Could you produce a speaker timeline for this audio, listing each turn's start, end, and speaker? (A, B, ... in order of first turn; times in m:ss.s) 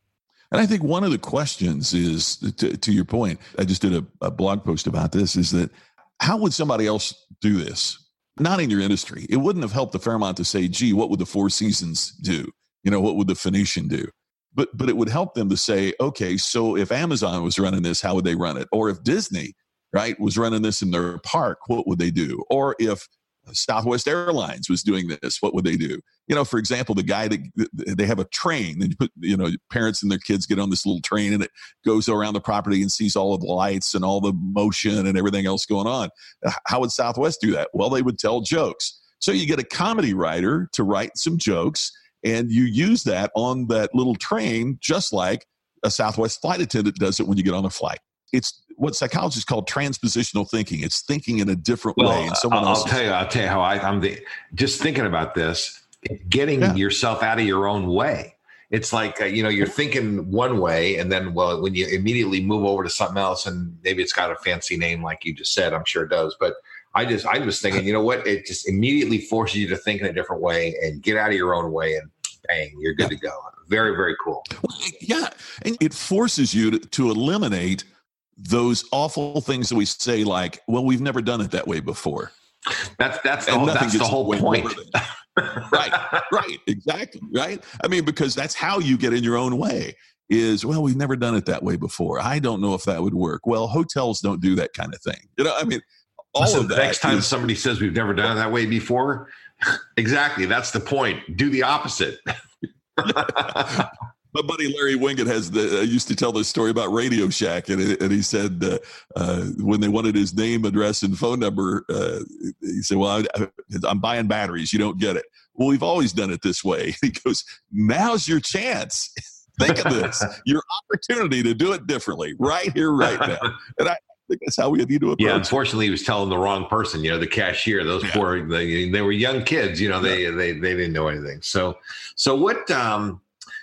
0:00.5-0:53.0 A
0:52.0-1:14.5 B
1:14.6-1:17.9 A
1:18.4-1:22.3 A
1:22.8-1:26.2 B
1:23.4-1:24.9 A
1:25.7-1:37.3 A
1:36.4-1:42.2 B
1:43.0-1:43.9 B
1:43.0-2:05.5 A
2:05.2-2:13.2 B